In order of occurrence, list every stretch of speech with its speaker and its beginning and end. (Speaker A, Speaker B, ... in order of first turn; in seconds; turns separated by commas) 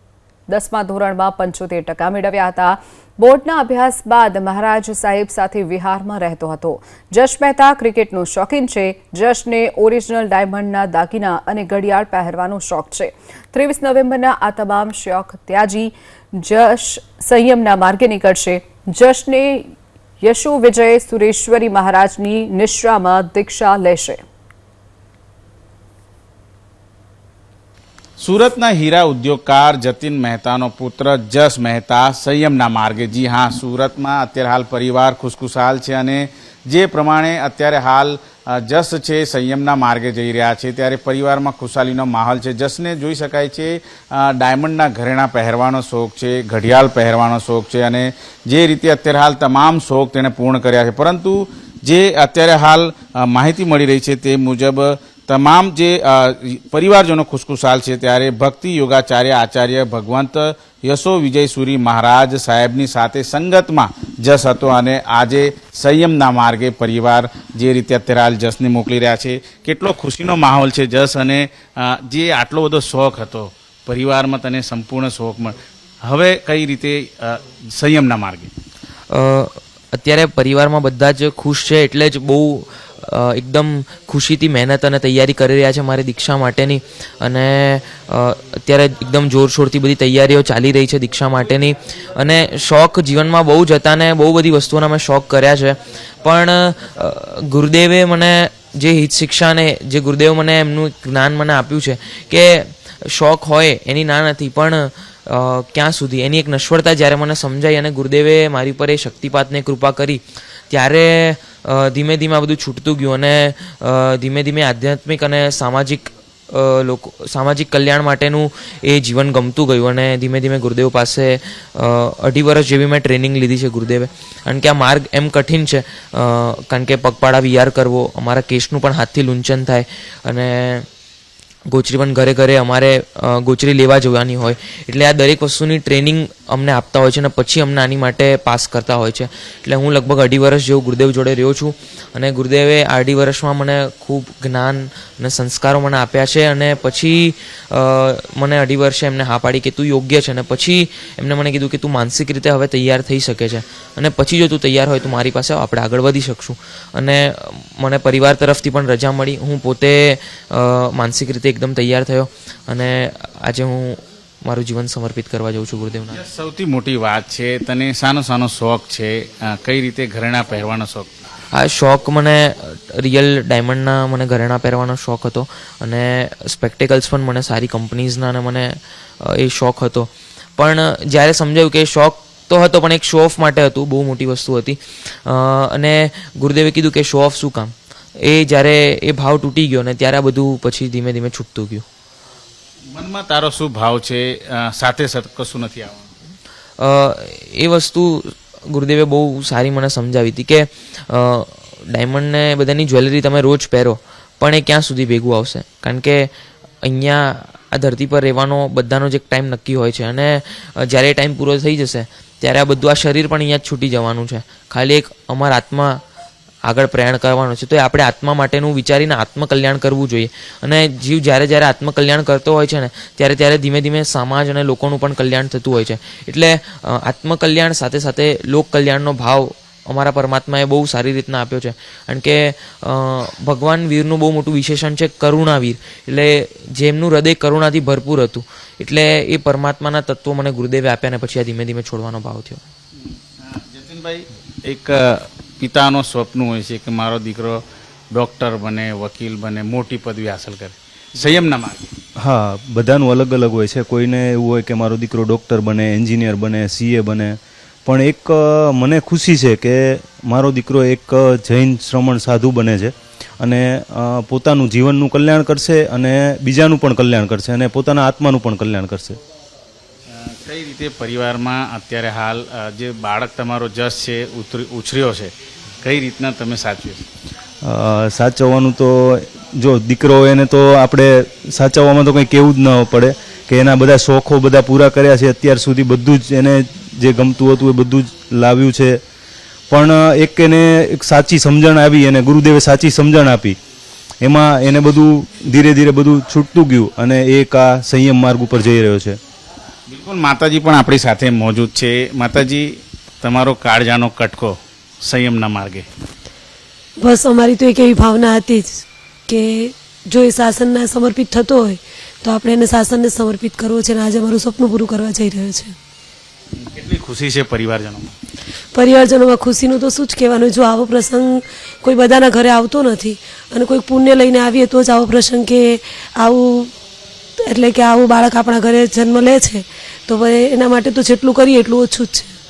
Speaker A: 0.5-19.7, Speaker A: 20.2-24.2, Speaker B: 28.2-78.5, Speaker C: 79.1-130.8, Speaker C: 131.7-166.2, Speaker B: 166.1-171.3, Speaker C: 171.5-191.8, Speaker B: 192.9-196.1, Speaker C: 196.8-206.3, Speaker C: 206.8-216.0, Speaker C: 216.7-242.6, Speaker B: 243.0-251.9, Speaker D: 252.2-269.2, Speaker B: 270.1-277.1, Speaker D: 277.6-289.0, Speaker D: 289.7-293.6, Speaker D: 294.2-299.2, Speaker B: 299.9-302.7, Speaker B: 303.2-305.8, Speaker E: 307.0-315.7, Speaker B: 316.6-318.2, Speaker E: 318.7-326.7, Speaker E: 327.4-332.3